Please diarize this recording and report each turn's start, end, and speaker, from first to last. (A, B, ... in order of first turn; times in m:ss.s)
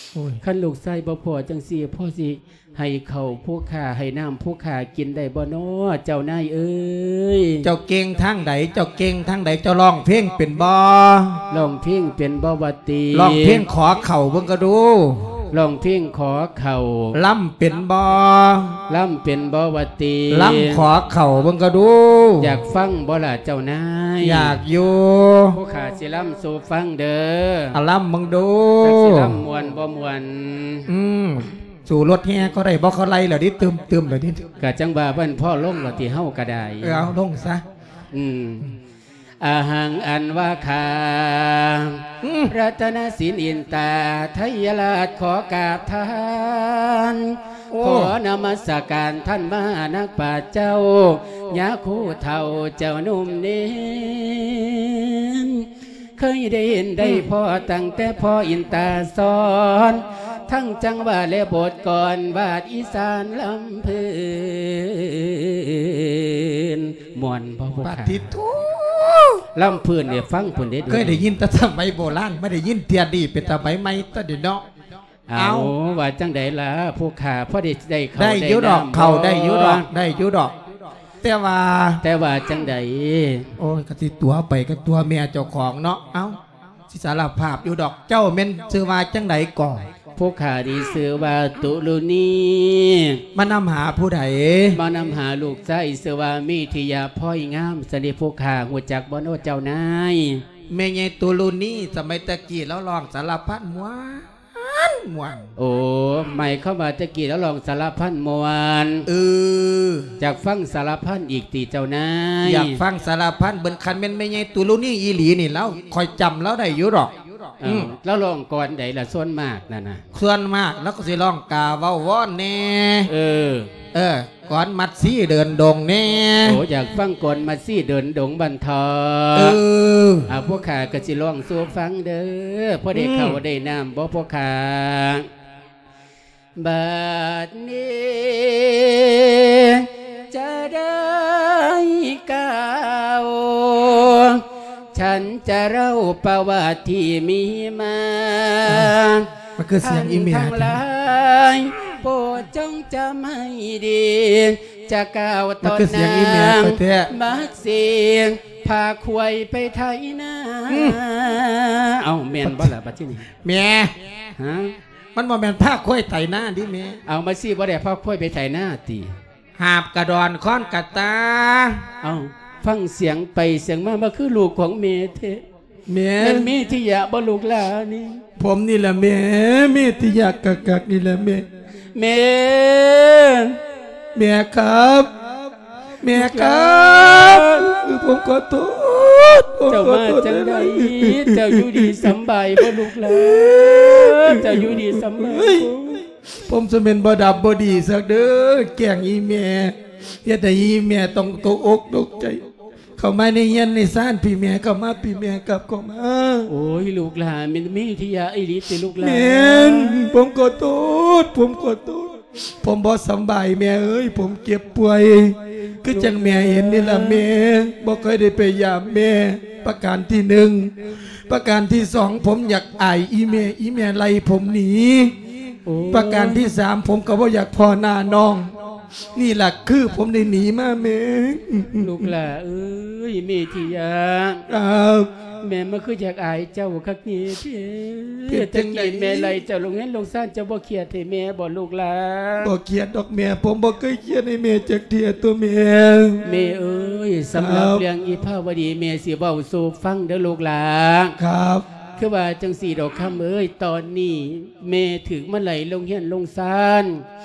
0:00.2-0:00.4 A
0:00.4-0:07.7 B
0:07.6-0:11.4 A
0:11.5-0:13.6 B
0:13.1-0:15.4 A
0:15.5-0:17.2 B
0:17.1-0:18.8 A
0:18.9-0:20.8 B
0:20.3-0:22.6 A
0:22.4-0:24.6 B
0:24.2-0:25.6 A
0:25.5-0:27.8 B
0:27.7-0:29.4 A
0:28.8-0:30.9 B
0:30.9-0:34.4 A
0:34.6-0:37.1 B
0:36.8-0:37.6 A
0:38.1-0:38.8 B
0:39.4-1:08.2 B
0:42.2-0:42.5 A
0:47.7-0:48.2 A
1:07.8-1:09.5 A
1:09.6-1:11.2 B
1:10.9-1:14.7 A
1:15.3-1:19.9 B
1:15.4-1:15.7 A
1:18.2-1:20.6 A
1:21.2-1:22.0 A
1:22.0-1:23.5 B
1:23.6-1:29.9 A
1:30.2-1:33.2 B
1:33.3-1:34.8 A
1:34.7-1:40.4 B
1:40.7-1:45.5 A
1:45.6-1:49.1 B
1:49.1-1:50.1 A
1:50.2-1:52.8 B
1:52.4-1:57.9 A
1:57.6-2:00.0 B
2:00.1-2:03.1 A
2:03.1-2:03.7 B
2:03.9-2:06.6 A
2:06.4-2:09.6 B
2:09.4-2:10.3 A
2:10.3-2:15.3 B
2:12.9-2:13.4 A
2:16.6-2:29.3 B
2:28.7-2:29.0 A
2:29.6-2:30.8 A
2:29.8-2:43.3 B
2:35.6-2:37.1 A
2:40.7-2:41.0 A
2:42.4-2:42.7 A
2:43.4-2:44.0 A
2:44.4-2:44.8 B
2:45.2-2:47.0 A
2:47.1-2:49.2 B
2:49.6-2:51.9 A
2:52.0-2:55.4 B
2:55.9-2:56.5 A
2:56.2-2:58.2 B
2:58.4-3:01.5 A
3:02.0-3:03.6 B
3:04.2-3:05.1 A
3:06.0-3:22.4 A
3:06.1-3:07.7 B
3:09.7-3:16.0 B
3:23.0-3:26.5 A
3:26.5-3:30.1 B
3:29.0-3:45.1 A
3:35.9-3:37.2 B
3:45.7-3:46.6 B
3:45.9-3:52.1 A
3:51.8-3:54.4 B
3:54.5-3:55.1 A
3:55.4-4:02.5 B
3:58.3-3:59.3 A
4:02.4-4:06.3 A
4:06.2-4:11.2 B
4:07.3-4:07.8 A
4:11.2-4:11.6 A
4:12.0-4:17.0 B